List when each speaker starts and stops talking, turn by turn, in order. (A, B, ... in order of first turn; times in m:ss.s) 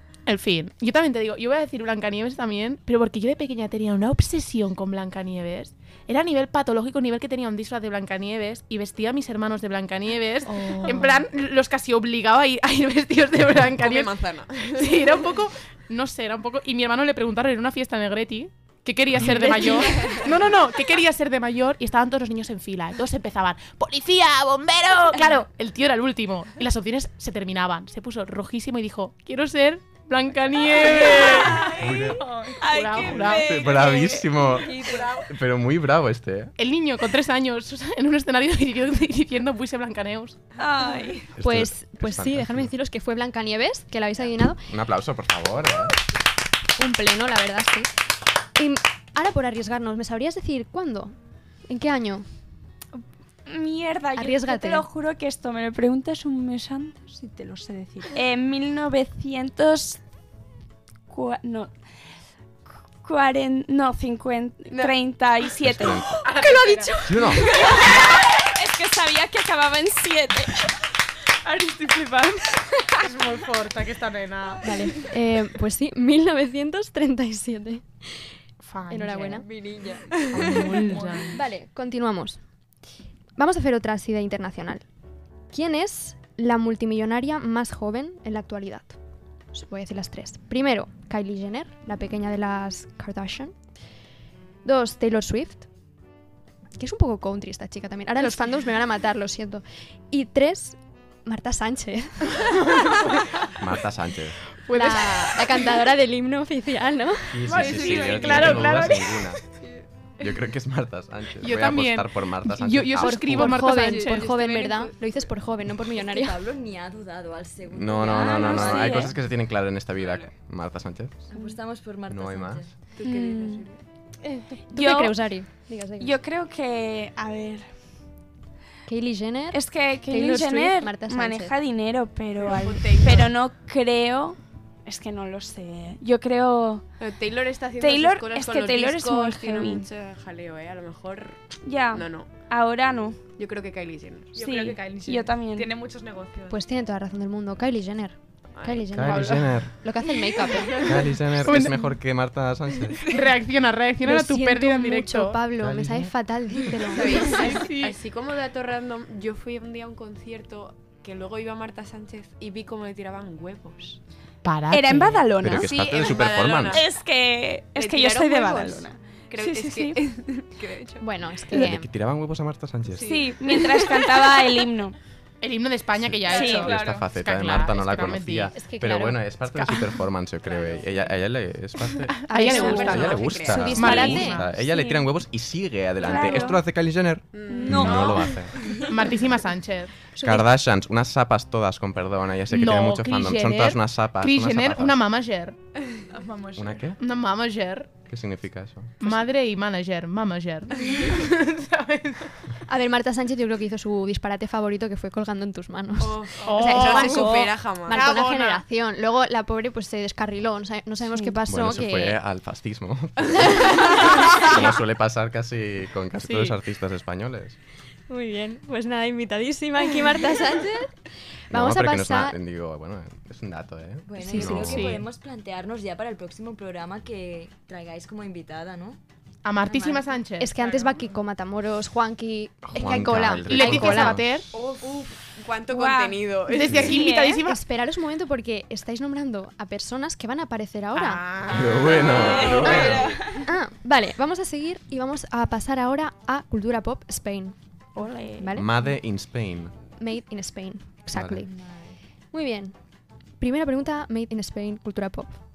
0:00.3-0:31.9 A
0:10.5-0:11.2 B
0:13.8-0:15.4 C
0:19.3-0:20.3 C
0:30.8-0:34.9 D
0:31.0-0:32.6 E
0:31.6-0:32.3 F
0:32.6-0:33.5 A
0:33.0-0:34.8 F
0:35.3-0:36.5 F
0:36.6-0:40.5 A
0:40.6-0:41.3 D
0:41.4-0:42.7 F
0:41.4-0:44.6 B
0:44.7-0:46.0 F
0:46.8-0:47.9 B
0:48.6-0:51.2 B
0:51.7-0:52.3 B
0:53.5-1:00.0 D
0:54.2-0:54.9 B
1:01.1-1:01.7 D
1:03.0-1:06.2 D
1:05.6-1:06.2 F
1:06.3-1:06.9 A
1:06.4-1:06.9 C
1:07.0-1:07.4 F
1:07.1-1:10.7 D
1:11.4-1:13.0 D
1:13.0-1:14.7 A
1:14.6-1:17.8 B
1:18.6-1:19.5 A
1:18.9-1:19.5 B
1:19.3-1:20.7 G
1:20.3-1:21.4 A
1:20.8-1:21.4 E
1:21.3-1:22.4 B
1:23.4-1:24.8 B
1:25.5-1:29.0 B
1:29.5-1:33.6 B
1:34.6-1:35.7 B
1:36.8-1:43.0 B
1:43.6-1:44.4 F
1:44.7-1:45.8 A
1:44.7-1:47.5 B
1:47.3-1:49.4 F
1:47.5-1:49.4 A
1:47.6-1:48.2 E
1:48.0-1:48.6 G
1:50.2-1:53.6 F
1:51.4-1:54.3 A
1:53.0-1:56.4 B
1:53.9-1:55.1 C
1:56.0-1:59.2 G
1:57.7-2:01.2 F
1:58.1-1:59.2 D
2:00.0-2:00.3 C
2:01.3-2:02.7 G
2:01.3-2:01.6 D
2:02.1-2:02.7 F
2:03.0-2:03.8 C
2:03.0-2:03.7 D
2:04.2-2:06.2 B
2:04.7-2:05.2 D
2:06.0-2:07.7 D
2:08.9-2:11.5 B
2:09.5-2:16.9 D
2:12.4-2:13.3 C
2:17.0-2:21.4 C
2:17.8-2:19.9 D
2:21.6-2:23.2 D
2:21.9-2:22.3 C
2:23.4-2:24.4 C
2:24.3-2:26.6 E
2:24.4-2:25.7 D
2:26.5-2:30.9 B
2:28.6-2:29.2 C
2:28.9-2:29.7 F
2:29.1-2:29.5 A
2:30.8-2:33.0 F
2:31.4-2:32.0 A
2:33.0-2:35.4 A
2:34.0-2:37.7 B
2:35.6-2:36.1 F
2:36.9-2:44.0 C
2:37.1-2:38.0 A
2:44.4-2:45.3 A
2:44.7-2:50.5 D
2:45.4-2:46.8 F
2:45.5-2:46.9 C
2:47.8-2:51.1 C
2:51.0-2:51.9 B
2:51.5-2:53.2 F
2:52.9-2:53.8 C
2:53.0-2:55.0 D
2:55.4-2:58.6 A
2:56.0-3:02.2 F
2:56.3-2:56.7 D
2:56.3-2:57.1 E
2:58.5-2:59.7 B
3:00.4-3:01.1 C
3:02.1-3:04.5 A
3:02.3-3:04.4 B
3:02.4-3:04.2 C
3:02.5-3:05.0 D
3:02.8-3:08.6 F
3:06.0-3:06.6 D
3:07.3-3:08.2 C
3:07.5-3:08.3 D
3:08.7-3:10.0 A
3:10.2-3:10.4 B
3:10.2-3:15.0 F
3:12.5-3:15.6 A
3:16.1-3:16.9 E
3:16.6-3:17.0 F
3:17.0-3:17.9 A
3:18.1-3:19.0 F
3:19.0-3:22.4 A
3:22.7-3:32.2 B
3:26.4-3:28.6 A
3:26.6-3:28.1 C
3:31.5-3:37.6 F
3:36.2-3:36.6 A
3:38.1-3:40.9 B
3:41.5-3:42.4 B
3:41.5-3:44.9 F
3:44.1-3:49.0 G
3:44.4-3:45.1 A
3:49.4-3:50.8 A
3:49.6-3:50.1 G
3:50.4-3:54.2 B
3:52.6-3:54.4 F
3:53.4-3:54.6 A
3:54.5-3:56.9 C
3:55.7-3:57.4 D
3:56.5-3:57.6 A
3:56.6-3:56.9 F
3:57.4-4:01.2 B
4:01.0-4:02.9 A
4:01.5-4:03.2 F
4:01.5-4:03.2 C
4:02.6-4:02.9 D
4:02.6-4:07.6 B
4:08.0-4:08.5 D
4:08.4-4:08.7 B
4:08.6-4:09.7 F
4:10.0-4:11.5 B
4:11.1-4:11.4 F
4:11.5-4:11.9 G
4:12.3-4:12.8 B
4:13.4-4:15.4 B